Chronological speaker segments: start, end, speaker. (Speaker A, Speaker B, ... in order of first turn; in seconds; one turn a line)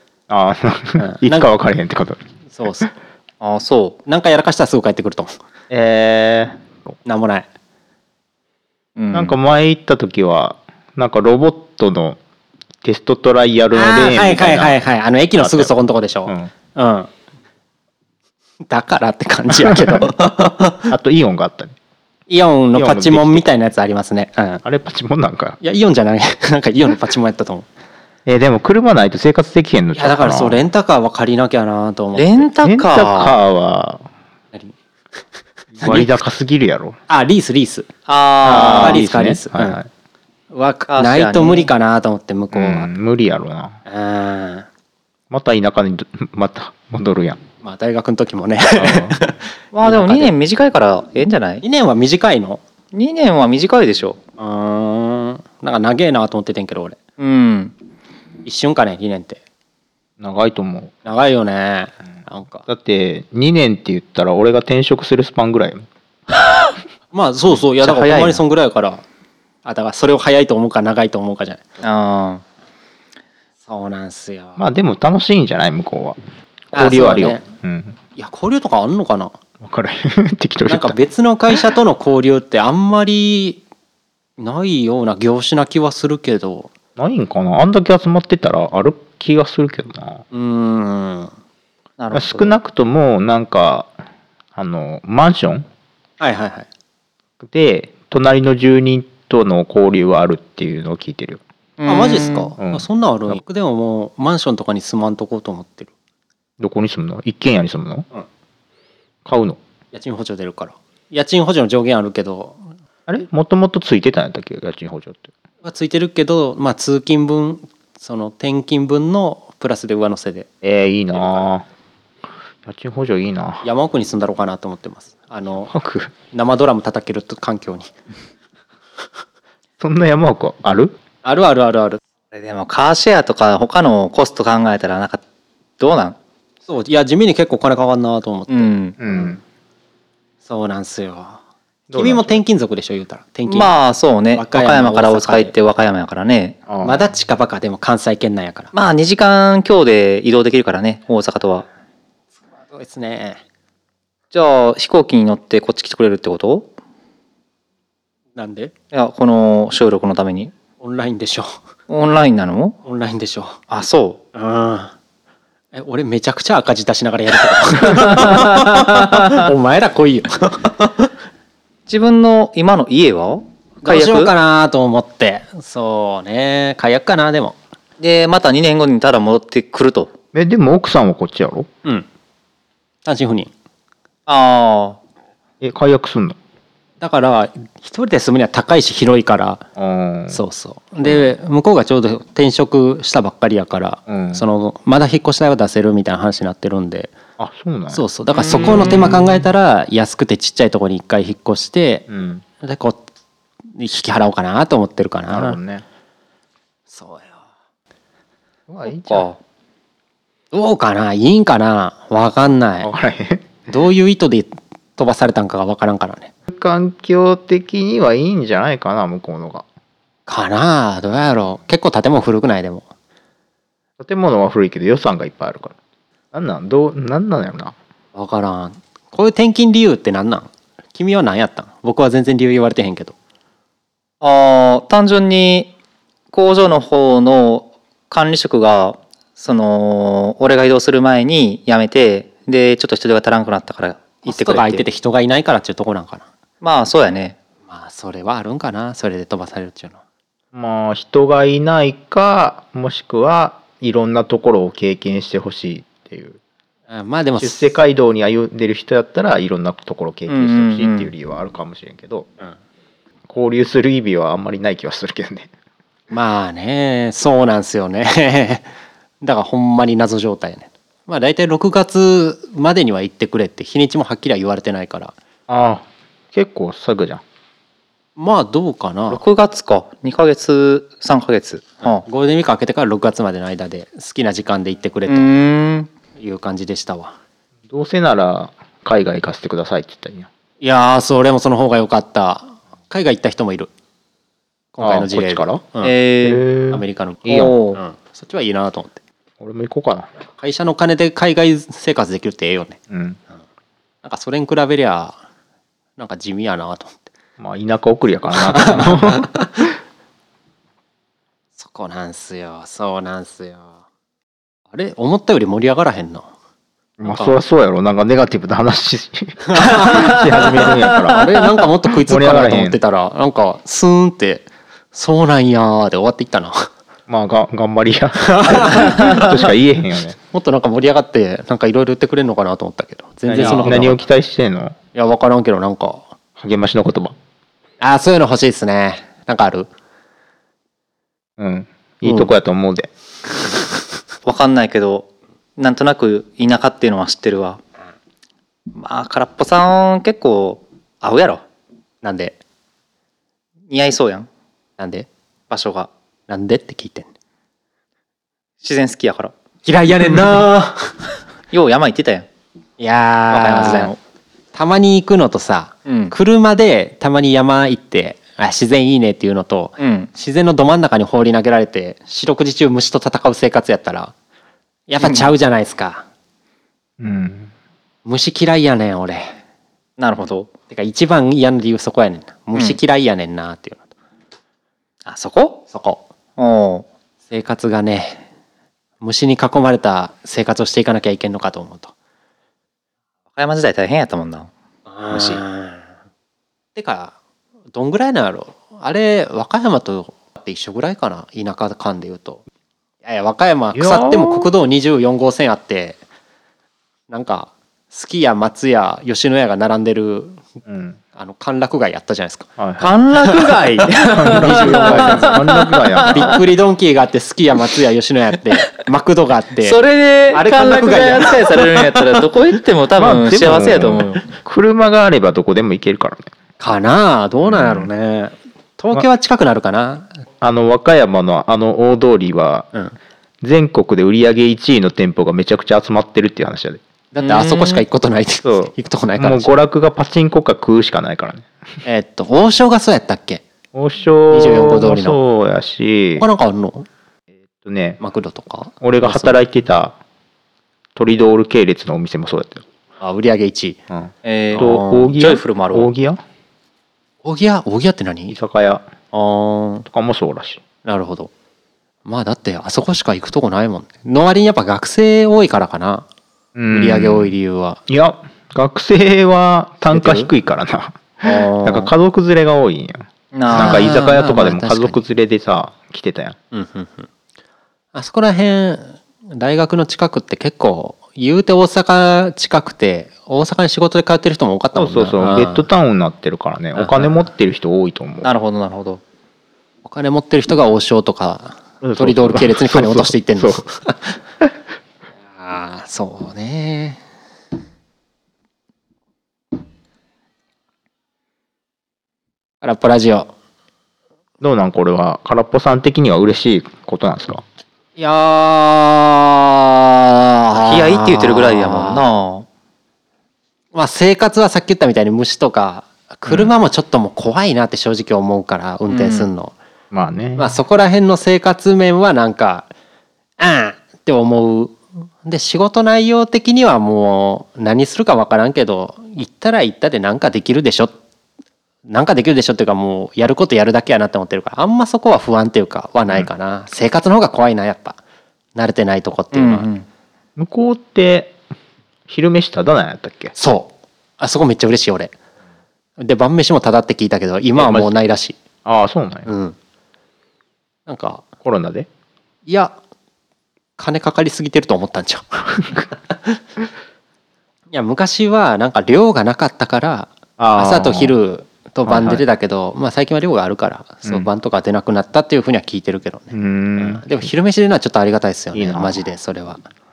Speaker A: 0.3-2.9
Speaker B: 1.0-1.5
Speaker B: 2.5-2.9
Speaker C: 3.4-4.0
Speaker B: 4.1-5.3
Speaker A: 5.7-6.9
Speaker B: 7.0-7.5
Speaker C: 9.0-9.3
Speaker A: 9.1-12.2
Speaker A: 12.8-14.8
Speaker B: 13.7-17.1
Speaker A: 15.4-15.7
Speaker B: 18.7-20.9
Speaker A: 20.9-21.8
Speaker B: 22.3-24.6
Speaker A: 22.8-23.5
Speaker A: 24.6-25.6
Speaker B: 25.6-27.7
Speaker A: 28.2-30.6
Speaker B: 29.9-32.5
Speaker C: 32.2-33.4
Speaker A: 32.6-34.0
Speaker B: 35.8-36.1
Speaker A: 35.8-37.0
Speaker B: 37.1-37.9
Speaker C: 38.1-39.0
Speaker A: 38.4-39.9
Speaker B: 38.5-39.8
Speaker B: 40.5-42.9
Speaker C: 40.9-41.7
Speaker A: 42.5-43.8
Speaker B: 43.9-44.7
Speaker A: 45.3-47.4
Speaker B: 47.6-50.3
Speaker A: 48.8-49.2
Speaker C: 49.7-51.6
Speaker B: 51.6-52.6
Speaker C: 52.9-54.2
Speaker B: 54.4-57.0
Speaker C: 57.2-57.7
Speaker B: 58.5-59.4
Speaker A: 60.2-60.9
Speaker B: 61.0-62.7
Speaker A: 62.7-65.9
Speaker B: 67.1-69.0
Speaker C: 67.8-68.4
Speaker B: 69.7-71.7
Speaker C: 71.8-72.4
Speaker B: 73.7-74.6
Speaker A: 74.6-76.2
Speaker B: 76.7-77.4
Speaker A: 76.7-78.0
Speaker B: 78.2-79.4
Speaker A: 79.6-81.0
Speaker B: 80.7-83.6
Speaker B: 84.4-86.7
Speaker A: 87.0-90.2
Speaker B: 90.3-91.3
Speaker C: 92.0-92.5
Speaker A: 92.1-93.9
Speaker A: 94.5-95.7
Speaker B: 96.2-96.7
Speaker A: 97.4-101.4
Speaker C: 101.8-102.5
Speaker B: 101.9-105.9
Speaker A: 102.6-103.4
Speaker A: 106.6-108.1
Speaker A: 109.2-109.6
Speaker B: 109.9-112.7
Speaker A: 113.1-115.3
Speaker B: 115.6-120.5
Speaker A: 120.6-121.6
Speaker A: 122.6-123.6
Speaker B: 123.6-125.7
Speaker A: 125.6-126.1
Speaker B: 126.3-127.9
Speaker A: 129.8-130.9
Speaker B: 131.2-132.0
Speaker C: 132.3-135.2
Speaker C: 135.8-136.2
Speaker B: 136.7-139.3
Speaker C: 138.5-138.9
Speaker A: 139.0-139.4
Speaker B: 140.4-141.4
Speaker A: 141.9-142.4
Speaker B: 141.9-143.7
Speaker C: 143.5-146.6
Speaker B: 144.3-145.5
Speaker A: 146.7-147.1
Speaker B: 146.8-148.7
Speaker C: 148.7-151.7
Speaker B: 152.7-153.4
Speaker C: 154.3-156.7
Speaker B: 158.3-158.7
Speaker C: 158.9-160.5
Speaker B: 160.8-161.6
Speaker C: 161.9-162.8
Speaker B: 162.8-163.6
Speaker C: 163.7-164.2
Speaker B: 164.3-164.9
Speaker B: 165.7-171.1
Speaker C: 167.9-169.4
Speaker C: 171.9-174.3
Speaker B: 173.8-177.6
Speaker C: 178.0-180.1
Speaker A: 180.3-181.7
Speaker B: 183.1-183.5
Speaker C: 184.3-185.0
Speaker A: 185.6-186.4
Speaker B: 187.0-189.6
Speaker A: 189.8-190.4
Speaker B: 190.3-197.1
Speaker A: 194.1-194.4
Speaker A: 197.4-198.0
Speaker B: 197.9-202.1
Speaker C: 198.4-199.1
Speaker A: 198.7-199.2
Speaker A: 202.1-202.4
Speaker B: 202.6-203.0
Speaker B: 203.8-205.6
Speaker A: 205.3-205.8
Speaker B: 206.9-207.4
Speaker B: 208.8-209.2
Speaker A: 208.8-209.2
Speaker C: 209.0-209.4
Speaker B: 210.5-212.9
Speaker A: 212.8-213.5
Speaker B: 213.7-216.3
Speaker A: 216.5-219.6
Speaker B: 220.3-222.9
Speaker A: 224.0-225.8
Speaker A: 226.3-227.8
Speaker B: 228.1-233.1
Speaker C: 234.2-235.7
Speaker C: 236.3-244.8
Speaker B: 244.2-246.3
Speaker C: 246.6-247.4
Speaker B: 247.7-250.0
Speaker A: 250.5-256.4
Speaker B: 256.9-257.6
Speaker A: 257.4-262.3
Speaker C: 260.3-261.1
Speaker A: 263.3-265.5
Speaker B: 266.1-268.7
Speaker B: 269.2-275.1
Speaker A: 275.5-277.2
Speaker B: 278.2-279.2
Speaker C: 279.1-282.0
Speaker B: 282.0-285.3
Speaker C: 285.1-285.9
Speaker B: 286.2-287.1
Speaker A: 287.7-290.3
Speaker B: 290.6-293.7
Speaker B: 294.7-295.9
Speaker A: 294.8-295.6
Speaker C: 295.8-296.4
Speaker A: 296.2-297.5
Speaker B: 296.7-299.0
Speaker C: 297.3-297.8
Speaker A: 299.4-300.1
Speaker B: 300.3-302.8
Speaker A: 302.9-303.2
Speaker B: 304.0-305.2
Speaker B: 306.0-307.0
Speaker A: 307.4-309.7
Speaker B: 308.3-309.4
Speaker B: 311.6-313.7
Speaker B: 314.7-316.3
Speaker A: 317.0-321.3
Speaker B: 317.0-317.4
Speaker B: 319.5-326.7
Speaker A: 322.1-322.8
Speaker A: 327.1-330.2
Speaker B: 328.2-329.0
Speaker C: 329.0-329.3
Speaker B: 330.3-334.0
Speaker A: 333.3-334.8
Speaker C: 333.4-333.6
Speaker B: 334.9-336.1
Speaker A: 336.4-337.1
Speaker B: 337.8-339.7
Speaker A: 341.4-342.9
Speaker B: 342.1-342.3
Speaker C: 344.2-347.6
Speaker C: 348.8-351.4
Speaker B: 352.0-352.4
Speaker C: 353.7-354.3
Speaker B: 354.8-355.1
Speaker C: 355.5-355.9
Speaker B: 356.3-357.1
Speaker C: 358.6-359.3
Speaker B: 359.6-361.0
Speaker C: 361.5-362.3
Speaker B: 362.8-363.9
Speaker C: 363.3-364.0
Speaker B: 364.5-374.1
Speaker C: 365.9-366.1
Speaker C: 369.8-370.1
Speaker B: 374.9-376.0
Speaker C: 375.0-375.3
Speaker A: 377.0-377.5
Speaker B: 378.0-379.4
Speaker C: 380.0-380.5
Speaker B: 380.7-383.9
Speaker C: 385.1-385.6
Speaker B: 385.7-386.0
Speaker C: 386.4-386.9
Speaker B: 387.3-388.2
Speaker B: 389.0-391.9
Speaker C: 393.4-394.5
Speaker B: 394.9-395.9
Speaker C: 395.1-395.4
Speaker B: 396.8-397.1
Speaker B: 397.7-402.4
Speaker B: 403.0-406.0
Speaker A: 403.7-404.5
Speaker B: 407.1-410.4
Speaker A: 410.6-411.0
Speaker B: 411.1-412.5
Speaker A: 412.6-412.9
Speaker C: 412.8-416.4
Speaker B: 413.2-415.4
Speaker A: 414.1-416.4
Speaker B: 416.1-419.8
Speaker C: 419.6-424.2
Speaker B: 420.3-422.1
Speaker A: 423.0-426.3
Speaker B: 426.6-430.2
Speaker A: 427.5-427.9
Speaker A: 430.4-432.7
Speaker A: 433.4-436.8
Speaker B: 437.1-439.6
Speaker C: 437.2-437.8
Speaker A: 438.4-441.5
Speaker B: 441.9-443.4
Speaker A: 443.7-446.3
Speaker B: 444.3-445.2
Speaker B: 446.2-446.9
Speaker A: 447.6-448.0
Speaker B: 448.0-449.4
Speaker A: 448.8-450.0
Speaker A: 450.9-452.6
Speaker B: 453.0-453.8
Speaker A: 453.9-456.2
Speaker C: 454.2-455.9
Speaker B: 454.5-455.1
Speaker B: 457.2-458.4
Speaker A: 458.3-458.9
Speaker B: 459.1-459.9
Speaker A: 459.9-460.6
Speaker B: 460.9-461.3
Speaker B: 462.0-466.1
Speaker A: 466.5-467.4
Speaker B: 466.7-467.8
Speaker A: 467.9-476.4
Speaker B: 469.9-470.3
Speaker B: 471.2-471.9
Speaker C: 473.3-473.9
Speaker B: 473.5-475.0
Speaker B: 476.5-477.1
Speaker B: 477.9-485.7
Speaker A: 484.8-488.3
Speaker B: 486.8-487.2
Speaker C: 488.2-489.0
Speaker B: 489.9-494.2
Speaker A: 491.8-493.6
Speaker B: 495.4-497.0
Speaker B: 502.6-503.3
Speaker A: 504.4-507.4
Speaker B: 508.0-512.0
Speaker C: 510.5-512.5
Speaker B: 513.7-519.5
Speaker A: 516.3-516.5
Speaker C: 518.9-519.3
Speaker A: 519.9-520.6
Speaker B: 520.4-522.7
Speaker B: 523.4-531.0
Speaker B: 531.9-538.0
Speaker B: 538.5-539.7
Speaker C: 539.3-539.9
Speaker A: 540.4-541.4
Speaker A: 542.1-543.4
Speaker B: 543.4-545.1
Speaker B: 546.0-548.4
Speaker A: 547.6-548.0
Speaker A: 548.6-549.3
Speaker B: 549.3-549.6
Speaker B: 550.9-551.2
Speaker A: 551.4-551.9
Speaker B: 552.5-552.8
Speaker B: 553.8-556.4
Speaker B: 557.7-569.6
Speaker A: 560.4-561.1
Speaker A: 561.9-562.2
Speaker A: 566.3-567.0
Speaker A: 568.5-569.0